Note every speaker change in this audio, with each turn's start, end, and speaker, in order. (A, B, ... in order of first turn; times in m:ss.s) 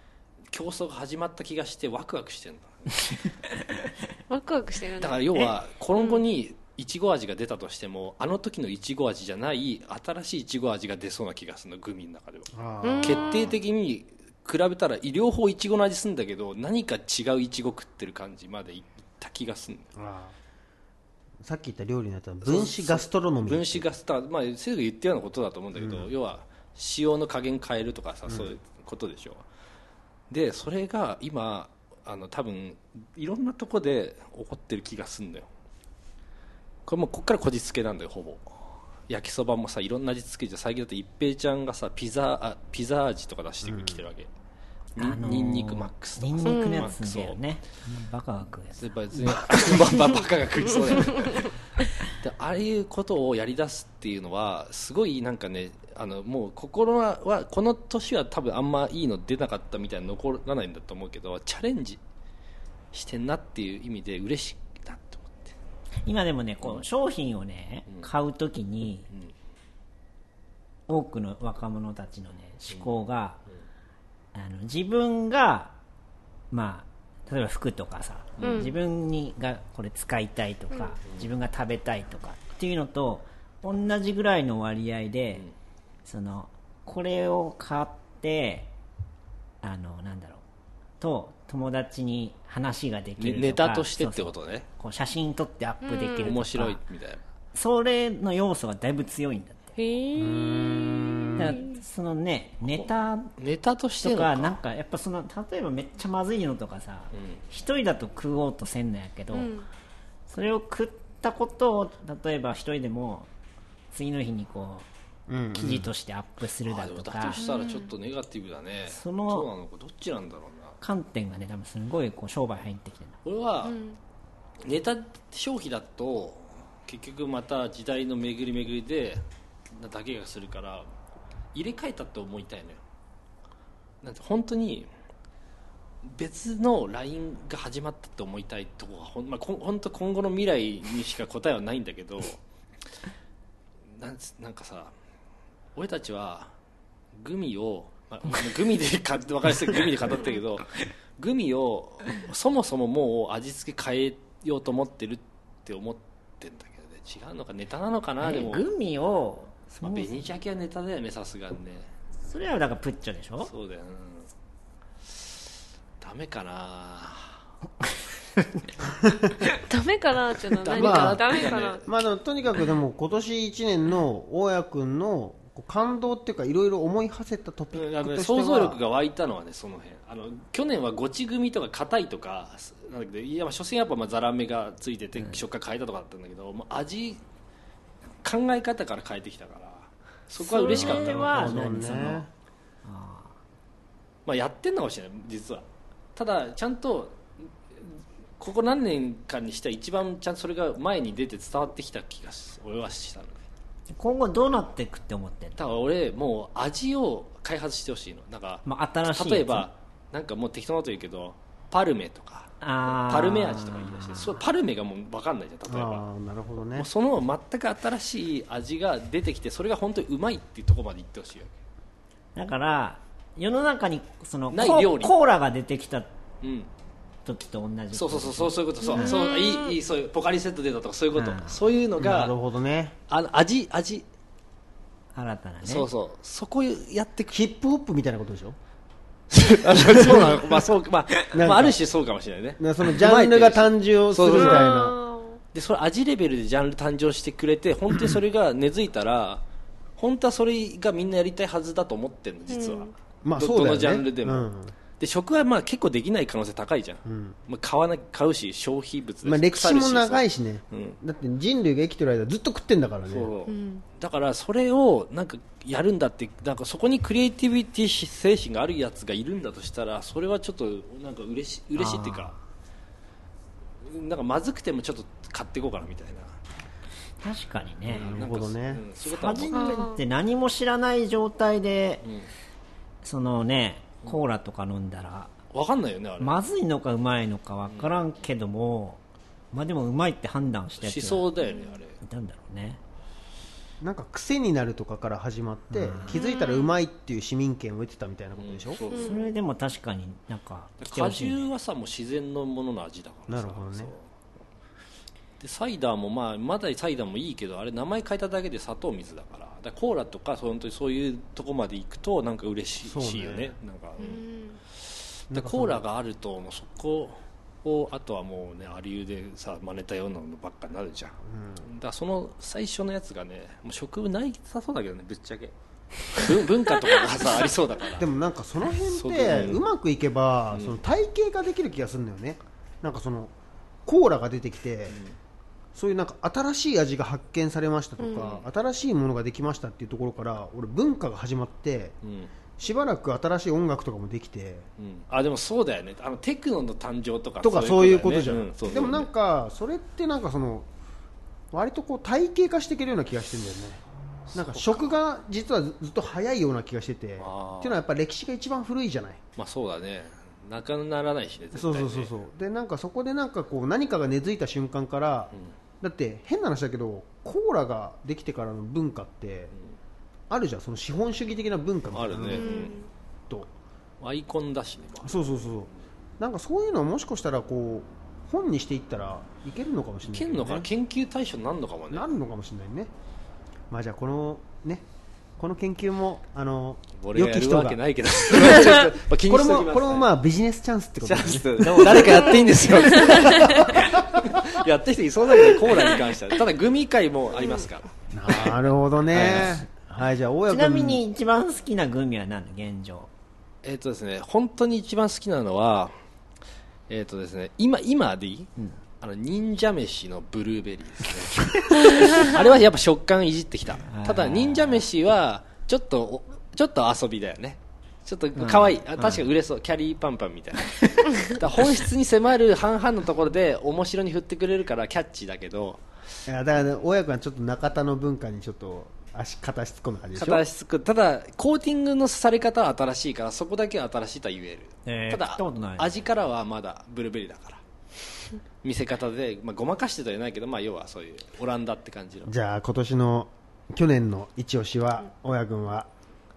0:00.5-0:03.3 A
0:04.3-0:06.2 B
0:05.0-0:12.5 A
0:12.5-0:13.5 C
0:12.8-0:13.5 B
0:13.0-0:19.9 A
0:20.0-0:20.4 C
0:21.4-0:23.9 C
0:22.4-0:29.4 A
0:25.8-0:26.1 C
0:28.3-0:28.6 C
0:30.3-0:35.5 A
0:36.9-0:44.3 A
0:43.6-0:44.0 C
0:45.0-0:47.4 A
0:45.0-0:49.9 D
0:46.4-0:46.9 B
0:48.8-0:51.5 A
0:52.1-1:02.0 A
1:02.9-1:05.6 A
1:06.0-1:09.1 D
1:10.9-1:13.4 D
1:14.3-1:15.8 D
1:16.5-1:25.5 D
1:18.4-1:18.7 A
1:18.4-1:18.8 B
1:26.1-1:28.7 D
1:29.6-1:30.4 D
1:31.0-1:36.8 D
1:33.2-1:34.7 A
1:35.8-1:36.4 B
1:36.2-1:37.2 A
1:37.5-1:39.8 D
1:39.8-1:41.7 B
1:40.2-1:41.6 C
1:41.4-1:43.3 D
1:43.4-1:44.6 A
1:44.0-1:49.5 D
1:49.3-1:49.7 B
1:50.3-1:53.3 D
1:53.9-1:54.9 D
1:55.3-1:55.9 C
1:55.5-1:57.4 D
1:56.6-2:00.8 A
1:57.4-1:57.9 B
1:58.9-1:59.5 D
2:00.8-2:03.2 D
2:03.2-2:03.8 A
2:03.6-2:04.0 B
2:04.6-2:10.9 A
2:11.5-2:12.8 A
2:14.0-2:14.9 A
2:16.0-2:22.4 A
2:24.0-2:24.9 A
2:25.8-2:26.5 A
2:27.2-2:38.7 A
2:38.2-2:40.1 D
2:39.8-2:41.9 A
2:42.3-2:43.5 D
2:43.5-2:44.3 A
2:46.0-2:47.4 A
2:49.1-2:49.3 C
2:49.6-2:51.8 B
2:50.6-2:52.0 A
2:50.8-2:58.8 C
2:57.7-3:07.2 A
3:08.2-3:11.6 A
3:10.4-3:12.3 D
3:10.7-3:12.3 C
3:12.8-3:13.4 D
3:14.3-3:15.6 A
3:16.2-3:23.4 A
3:23.9-3:25.6 D
3:25.6-3:36.0 A
3:28.7-3:29.7 D
3:32.6-3:34.4 D
3:35.7-3:36.9 C
3:36.7-3:41.5 A
3:42.4-3:46.1 D
3:44.5-3:45.1 A
3:46.4-3:46.7 A
3:47.2-3:49.2 D
3:47.9-3:52.4 A
3:48.8-3:49.8 B
3:51.2-3:51.6 D
3:52.0-3:53.0 C
3:53.1-3:54.0 A
3:55.2-3:55.9 D
3:55.6-3:57.4 A
3:57.3-3:58.6 C
3:59.3-4:04.7 A
3:59.8-4:00.3 C
4:01.3-4:01.8 C
4:02.6-4:05.0 C
4:04.3-4:05.4 B
4:05.5-4:09.4 A
4:10.0-4:14.5 A
4:12.5-4:12.9 B
4:13.2-4:14.8 C
4:15.0-4:21.0 A
4:17.0-4:17.4 C
4:19.2-4:23.3 C
4:23.1-4:32.4 A
4:23.5-4:23.8 B
4:31.8-4:32.4 D
4:33.8-4:36.4 A
4:37.2-4:38.2 D
4:37.9-4:38.8 C
4:37.9-4:39.8 A
4:39.1-4:42.0 D
4:39.5-4:40.0 B
4:42.0-4:42.3 A
4:43.0-4:45.3 D
4:45.5-4:46.4 A
4:46.2-4:49.0 D
4:47.7-4:48.1 A
4:49.5-4:51.3 D
4:50.8-4:52.0 A
4:51.4-4:51.8 B
4:52.0-4:52.8 D
4:53.8-4:58.8 C
4:55.7-4:56.2 D
4:56.1-4:56.7 B
4:58.4-4:59.2 A
4:58.9-4:59.3 B
4:58.9-5:01.4 D
5:00.8-5:04.1 A
5:03.3-5:03.9 C
5:05.4-5:14.2 A
5:12.8-5:13.6 C
5:14.0-5:14.6 B
5:15.2-5:25.5 A
5:15.3-5:15.8 C
5:21.2-5:21.7 C
5:26.1-5:28.1 A
5:28.0-5:33.3 C
5:28.8-5:29.6 A
5:30.5-5:30.8 A
5:33.9-5:35.0 C
5:35.8-5:42.0 C
5:38.0-5:38.4 B
5:42.0-5:42.3 A
5:42.6-5:44.7 C
5:44.8-5:49.1 A
5:47.4-5:50.7 C
5:51.5-5:59.2 C
5:54.3-5:55.0 A
5:57.2-5:57.8 A
5:59.4-6:02.1 A
6:01.5-6:09.5 C
6:10.3-6:12.8 C
6:11.9-6:12.8 A
6:12.3-6:12.9 B
6:14.0-6:15.3 A
6:15.0-6:20.7 C
6:20.0-6:22.1 A
6:21.9-6:22.9 C
6:23.7-6:24.8 C
6:25.4-6:27.8 C
6:27.0-6:30.1 A
6:28.3-6:32.2 C
6:31.0-6:38.6 A
6:31.6-6:32.4 D
6:32.9-6:33.6 B
6:33.3-6:34.0 C
6:38.1-6:41.0 C
6:39.1-6:39.6 A
6:40.5-6:43.1 D
6:43.6-6:45.9 A
6:46.9-7:05.8 A
6:53.9-6:54.8 D
6:58.4-6:59.2 D
7:06.3-7:10.4 C
7:10.2-7:17.6 A
7:14.9-7:15.9 D
7:18.6-7:22.3 A
7:22.3-7:25.9 C